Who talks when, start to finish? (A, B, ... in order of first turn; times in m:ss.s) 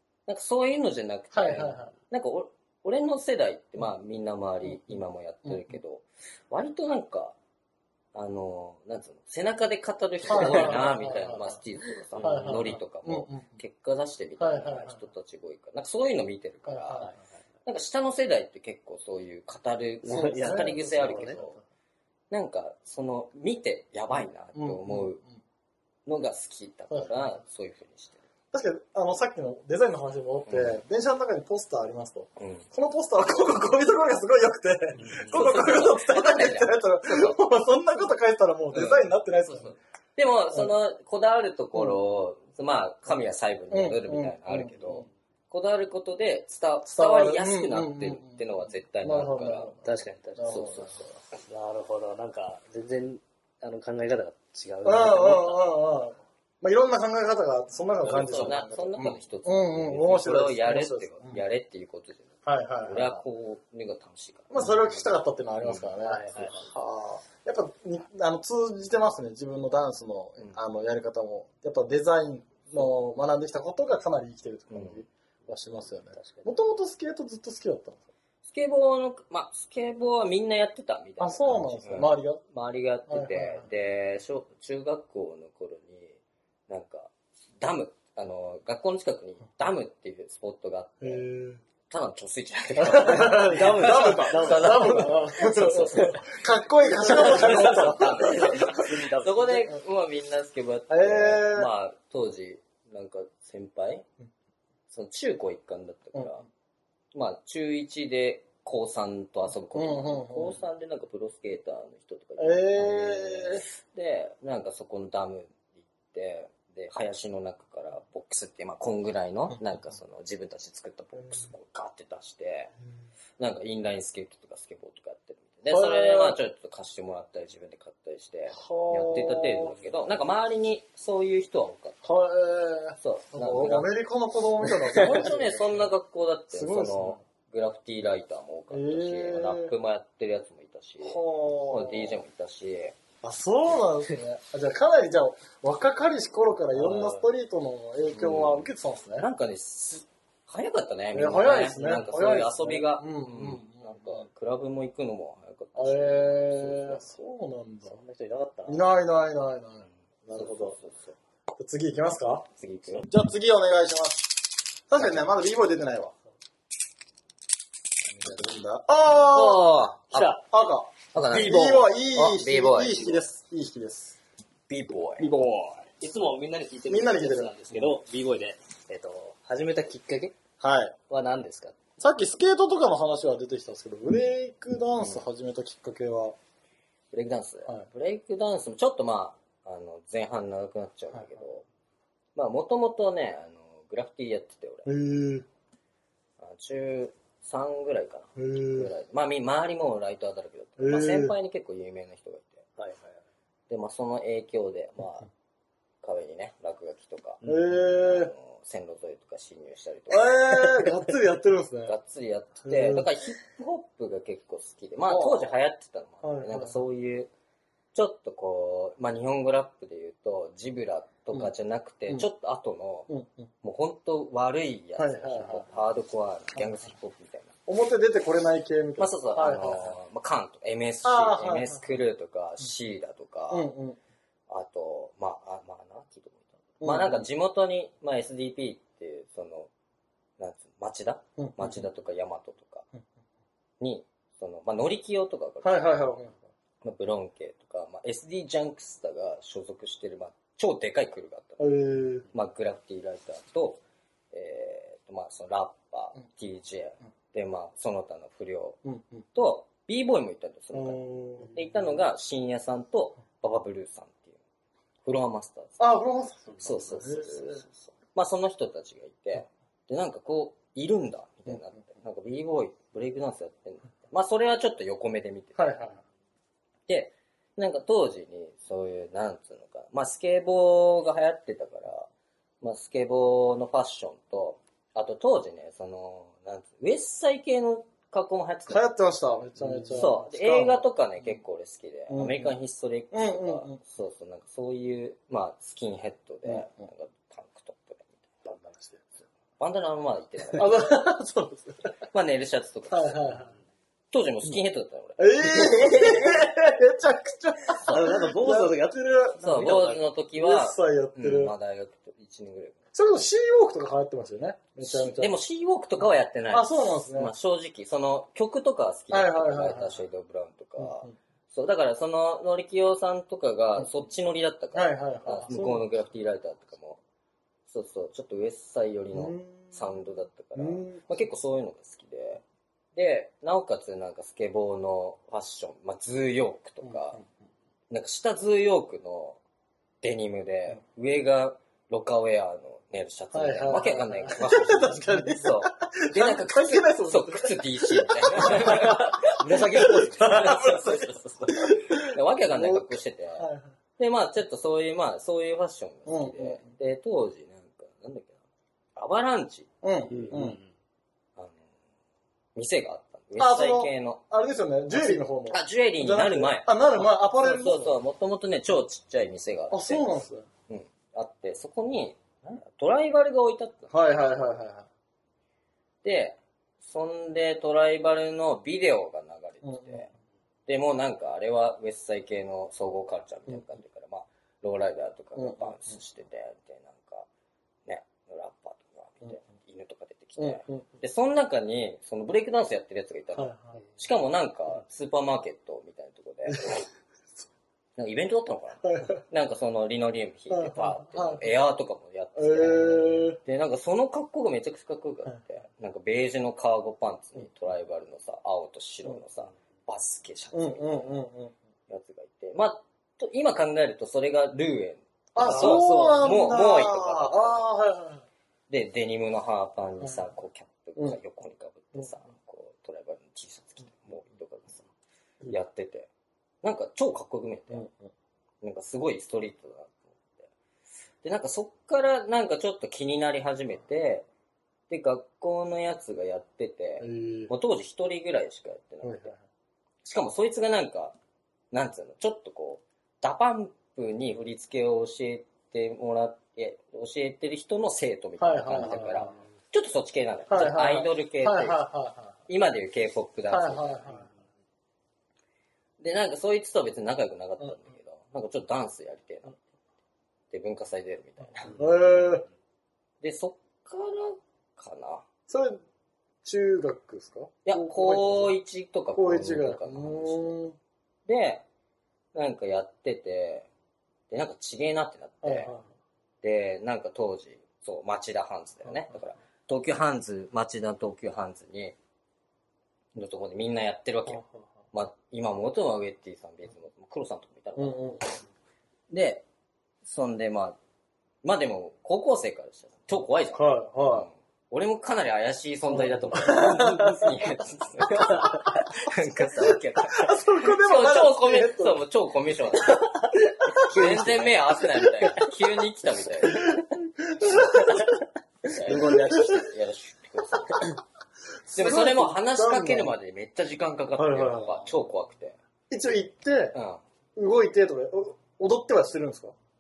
0:00.3-0:07.4 A
0:01.3-0:01.9 B
0:08.1-0:17.1 A
0:10.3-0:11.6 B
0:12.2-0:12.7 C
0:12.2-0:13.6 B
0:14.4-0:15.0 B
0:16.7-0:17.2 B
0:17.6-0:21.6 A
0:20.0-0:21.4 C
0:20.1-0:21.6 B
0:22.3-0:25.2 A
0:24.6-0:25.3 B
0:26.1-0:28.2 A
0:28.5-0:39.8 B
0:30.5-0:30.8 A
0:32.4-0:32.7 A
0:35.0-0:35.3 C
0:35.3-0:37.4 A
0:38.7-0:49.8 A
0:43.7-0:45.1 B
0:46.8-0:48.4 B
0:49.0-0:51.2 B
0:49.8-0:55.6 C
0:54.8-1:01.4 B
0:58.0-1:04.7 A
0:58.1-0:58.7 C
1:02.4-1:03.2 B
1:04.5-1:18.0 B
1:05.6-1:05.9 A
1:06.0-1:06.7 C
1:14.7-1:15.0 A
1:15.5-1:16.5 C
1:18.4-1:31.3 A
1:21.2-1:22.4 B
1:23.1-1:23.7 B
1:31.0-1:31.6 B
1:31.9-1:36.3 A
1:32.8-1:38.9 B
1:33.2-1:36.2 C
1:36.9-1:39.7 C
1:37.1-1:44.1 A
1:40.9-1:41.7 B
1:44.9-1:46.5 A
1:47.1-2:02.7 A
1:49.8-1:50.6 B
1:52.4-1:53.6 B
2:03.4-2:12.0 A
2:05.7-2:06.4 B
2:08.5-2:09.8 B
2:12.0-2:15.9 B
2:13.0-2:13.9 A
2:14.8-2:15.1 C
2:14.9-2:23.0 A
2:16.5-2:17.2 B
2:18.7-2:19.7 B
2:21.0-2:22.2 B
2:23.2-2:29.3 B
2:26.7-2:27.2 C
2:28.1-2:37.0 A
2:31.1-2:34.2 B
2:35.8-2:38.0 B
2:37.9-2:38.8 C
2:38.7-2:40.8 B
2:40.4-2:41.2 A
2:41.6-2:42.5 B
2:42.6-2:43.1 A
2:43.1-2:46.2 B
2:48.2-2:49.7 B
2:49.3-2:50.4 A
2:50.1-2:50.4 C
2:50.5-2:54.2 B
2:51.1-2:53.2 A
2:51.3-2:51.8 C
2:54.7-2:55.4 A
2:55.2-3:00.4 C
2:56.9-2:57.9 B
3:00.6-3:01.0 B
3:01.1-3:01.8 C
3:02.0-3:06.4 B
3:07.1-3:11.7 A
3:12.4-3:14.9 A
3:14.9-3:15.5 B
3:16.4-3:22.7 A
3:18.4-3:18.9 B
3:20.8-3:21.3 B
3:22.8-3:23.2 C
3:23.7-3:25.3 A
3:26.0-3:30.8 A
3:27.4-3:27.8 C
3:27.4-3:28.3 B
3:30.1-3:32.0 B
3:31.9-3:37.3 A
3:32.6-3:33.1 B
3:35.1-3:35.4 B
3:36.2-3:36.8 B
3:37.9-3:43.1 A
3:43.1-3:43.5 B
3:43.6-3:47.5 A
3:45.0-3:45.7 B
3:47.7-3:50.0 B
3:49.0-3:53.7 A
3:51.0-3:51.8 B
3:53.5-3:54.0 B
3:54.5-3:59.7 A
3:56.8-3:57.3 B
4:00.4-4:02.9 A
4:01.4-4:01.8 B
4:03.8-4:06.1 A
4:05.6-4:06.4 B
4:06.8-4:11.7 A
4:11.6-4:12.3 B
4:12.3-4:13.8 A
4:14.3-4:24.4 A
4:18.8-4:19.2 B
4:20.7-4:21.7 B
4:25.0-4:25.8 A
4:25.8-4:27.6 B
4:26.6-4:35.8 A
4:35.6-4:36.0 B
4:36.9-4:42.1 A
4:42.6-4:48.8 A
4:48.7-4:50.8 B
4:49.9-4:58.4 A
4:52.1-4:52.6 B
4:53.1-4:53.8 B
4:56.4-4:56.8 B
4:58.6-4:59.1 B
4:59.6-5:00.8 A
5:00.5-5:01.9 B
5:02.1-5:03.4 A
5:02.9-5:03.5 B
5:04.1-5:06.0 A
5:05.2-5:09.7 B
5:06.0-5:06.3 C
5:07.8-5:10.0 C
5:09.4-5:12.9 A
5:10.4-5:11.5 B
5:12.9-5:15.3 B
5:14.8-5:27.0 A
5:16.5-5:17.3 B
5:19.1-5:20.0 B
5:20.8-5:21.2 B
5:24.7-5:25.9 B
5:27.7-5:32.4 A
5:29.1-5:29.8 B
5:30.6-5:31.1 B
5:33.0-5:37.2 A
5:37.9-5:39.4 A
5:40.0-5:58.4 A
5:43.3-5:53.7 B
5:49.5-5:50.3 C
5:56.1-5:56.6 B
5:59.0-6:00.3 A
5:59.8-6:00.6 B
6:00.1-6:00.6 C
6:02.6-6:04.2 A
6:03.4-6:08.0 B
6:04.9-6:13.9 A
6:09.7-6:10.5 B
6:13.9-6:14.9 B
6:16.0-6:20.1 A
6:19.6-6:20.0 B
6:20.7-6:27.3 A
6:25.4-6:25.8 B
6:27.9-6:36.8 A
6:30.4-6:30.8 B
6:33.4-6:33.8 B
6:36.5-6:36.8 B
6:38.0-6:51.2 A
6:38.8-6:39.2 B
6:40.5-6:41.4 B
6:42.4-6:43.4 B
6:50.5-6:51.6 B
6:51.9-6:57.7 A
6:55.3-6:58.2 B
6:55.4-6:56.3 C
6:58.7-7:04.9 A
7:05.5-7:06.1 A
7:06.6-7:07.9 A
7:07.7-7:08.0 B
7:08.6-7:10.5 A
7:11.2-7:14.3 A
7:14.9-7:19.4 A
7:17.0-7:17.5 B
7:19.0-7:19.4 B
7:20.0-7:21.2 A
7:21.7-7:31.8 A
7:28.4-7:29.4 B
7:30.5-7:32.3 B
7:32.5-7:34.2 A
7:33.5-7:34.2 B
7:36.0-7:39.6 A
7:40.5-7:41.8 A
7:41.8-7:42.5 B
7:43.2-7:45.2 A
7:45.5-7:45.8 B
7:46.4-7:48.5 B
7:47.6-7:50.6 A
7:49.2-7:50.8 B
7:51.3-7:51.6 A
7:52.3-7:53.7 A
7:54.3-7:55.8 A
7:55.4-7:55.9 B
7:56.4-8:02.0 A
8:03.2-8:08.0 A
8:07.8-8:08.4 B
8:09.1-8:09.4 A
8:10.0-8:10.8 A
8:11.4-8:26.8 A
8:13.6-8:14.3 B
8:16.0-8:17.3 B
8:19.6-8:22.0 B
8:22.9-8:25.5 C
8:26.4-8:28.1 B
8:27.6-8:28.1 C
8:28.7-8:30.9 A
8:28.7-8:29.6 C
8:28.8-8:29.7 B
8:31.7-8:33.1 B
8:31.7-8:35.6 A
8:34.2-8:34.8 B
8:35.9-8:36.8 B
8:36.7-8:37.0 A
8:37.4-8:39.6 B